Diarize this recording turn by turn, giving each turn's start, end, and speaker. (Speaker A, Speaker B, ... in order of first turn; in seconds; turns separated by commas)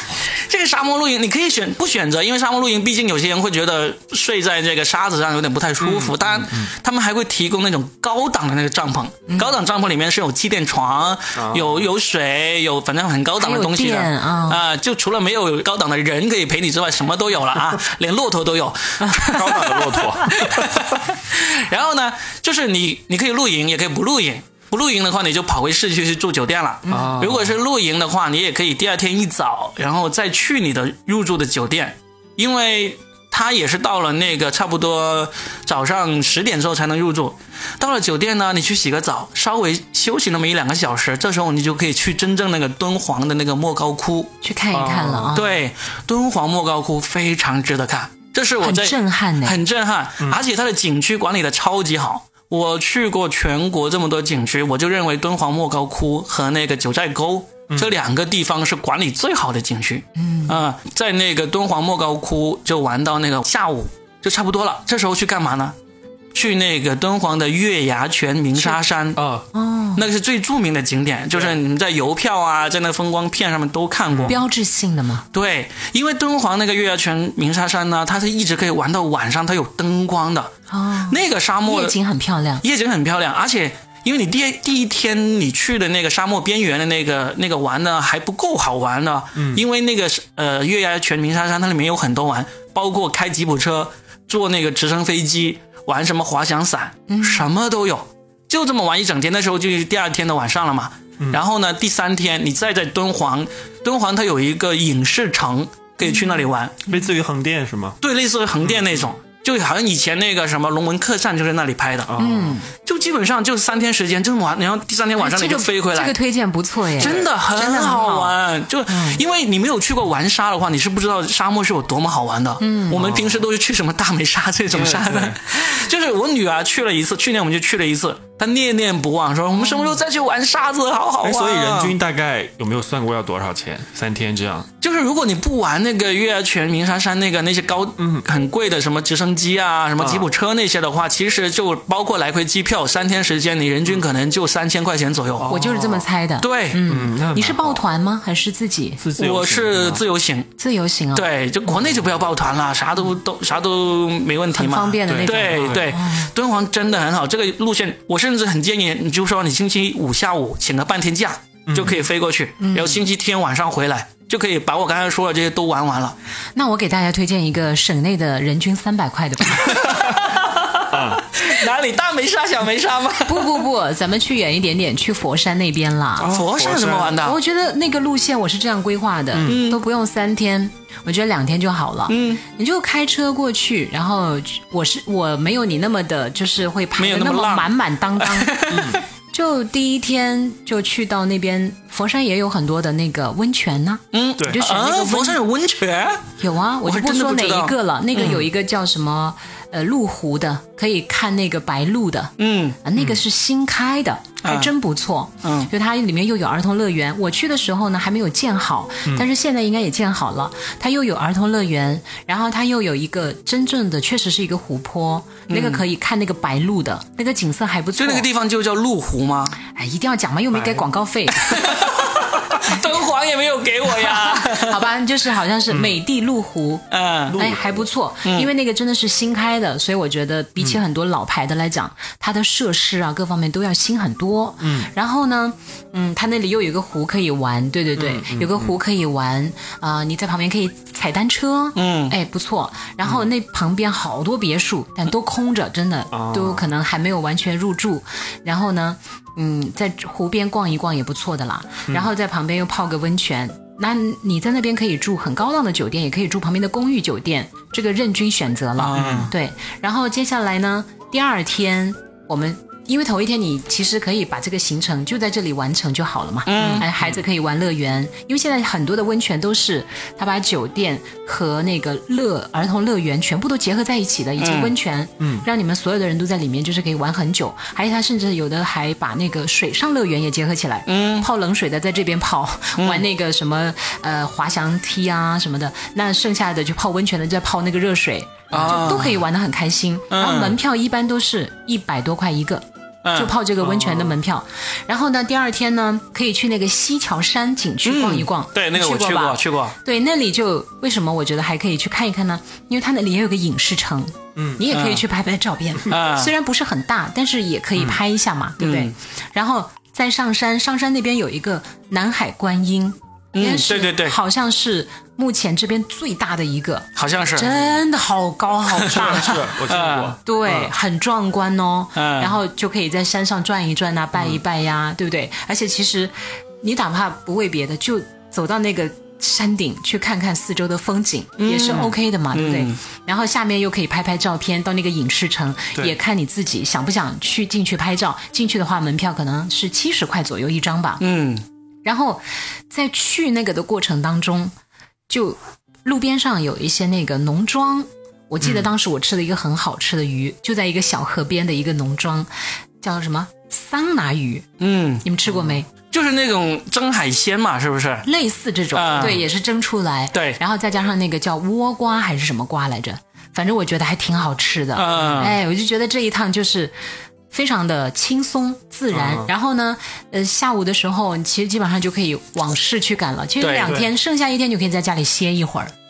Speaker A: 0.2-44.3, Speaker B: 5.8-6.7, Speaker B: 11.3-11.9, Speaker C: 13.4-14.6, Speaker C: 19.1-19.8, Speaker B: 19.3-20.9, Speaker C: 26.9-27.2, Speaker B: 26.9-27.6, Speaker C: 44.4-45.5, Speaker B: 44.7-45.4, Speaker A: 45.3-65.8, Speaker C: 48.6-49.6, Speaker C: 60.2-60.6, Speaker A: 66.3-69.2, Speaker B: 69.2-69.5, Speaker C: 69.5-70.0, Speaker A: 70.0-74.4, Speaker B: 74.1-74.4, Speaker C: 74.3-75.3, Speaker A: 75.3-80.5, Speaker C: 80.7-82.6, Speaker A: 81.1-82.0, Speaker A: 82.6-106.8, Speaker B: 89.4-89.6, Speaker C: 97.1-97.5, Speaker B: 106.9-108.0, Speaker A: 108.0-112.1, Speaker B: 112.1-112.6, Speaker C: 112.2-112.7, Speaker A: 112.8-116.2, Speaker C: 115.2-119.2, Speaker A: 117.0-131.9, Speaker B: 117.0-117.3, Speaker C: 122.6-123.0, Speaker B: 122.9-123.4, Speaker B: 124.7-125.4, Speaker C: 129.6-130.0, Speaker B: 131.2-134.7, Speaker A: 134.8-145.6, Speaker B: 138.0-138.2, Speaker B: 140.0-140.3, Speaker B: 145.4-146.1, Speaker C: 145.5-149.0, Speaker A: 146.4-146.8, Speaker B: 146.9-147.8, Speaker B: 149.0-150.0, Speaker A: 149.2-150.5, Speaker C: 150.6-151.3, Speaker A: 151.1-166.2, Speaker C: 154.6-156.3, Speaker B: 155.1-155.8, Speaker B: 161.7-162.0, Speaker C: 162.6-163.0, Speaker C: 166.6-170.2, Speaker A: 169.6-173.6, Speaker B: 170.9-171.2, Speaker C: 173.2-176.3, Speaker B: 176.2-177.2, Speaker A: 176.3-177.4, Speaker C: 177.2-188.8, Speaker B: 179.3-179.6, Speaker A: 179.4-179.8, Speaker A: 182.1-182.4, Speaker A: 187.0-187.7, Speaker A: 188.2-189.0, Speaker B: 188.7-189.0, Speaker C: 189.3-195.4, Speaker A: 194.1-196.3, Speaker C: 196.4-218.3, Speaker A: 196.8-198.4, Speaker A: 202.4-202.8, Speaker A: 204.4-204.7, Speaker A: 205.4-205.7, Speaker A: 215.5-215.8, Speaker A: 218.0-219.6, Speaker C: 219.7-221.8, Speaker B: 220.5-220.9, Speaker A: 221.3-224.8, Speaker C: 222.7-222.9, Speaker C: 223.9-226.8, Speaker B: 225.7-226.0, Speaker A: 226.9-227.4, Speaker B: 227.3-227.8, Speaker C: 227.4-319.5, Speaker A: 228.2-228.5, Speaker B: 234.6-234.9, Speaker B: 238.0-238.8, Speaker A: 241.8-242.2, Speaker B: 246.1-246.7, Speaker A: 258.8-259.3, Speaker B: 258.9-259.3, Speaker A: 266.5-266.9, Speaker B: 266.6-267.0, Speaker A: 274.4-274.7, Speaker B: 275.2-275.5, Speaker A: 280.9-281.3, Speaker A: 282.8-283.1, Speaker A: 288.5-289.2, Speaker A: 290.1-290.6, Speaker A: 293.0-293.3, Speaker B: 293.6-294.2, Speaker A: 297.9-299.8, Speaker B: 304.4-304.6, Speaker A: 304.7-305.0, Speaker A: 305.9-306.3, Speaker A: 308.6-308.9, Speaker A: 313.4-314.2, Speaker A: 317.0-317.6, Speaker A: 318.7-320.1, Speaker B: 318.8-320.7, Speaker C: 320.3-341.0, Speaker A: 321.9-322.4, Speaker A: 331.4-332.8, Speaker A: 341.0-341.4, Speaker C: 341.9-344.5, Speaker C: 345.1-352.3, Speaker C: 352.8-354.5, Speaker A: 354.6-355.1, Speaker C: 355.0-355.7, Speaker B: 355.3-355.6, Speaker A: 355.9-358.1, Speaker C: 358.1-366.7, Speaker A: 358.7-359.2, Speaker A: 360.1-360.4, Speaker A: 364.8-365.4, Speaker C: 367.3-375.7, Speaker B: 368.9-369.3, Speaker A: 373.4-373.8, Speaker B: 373.6-373.9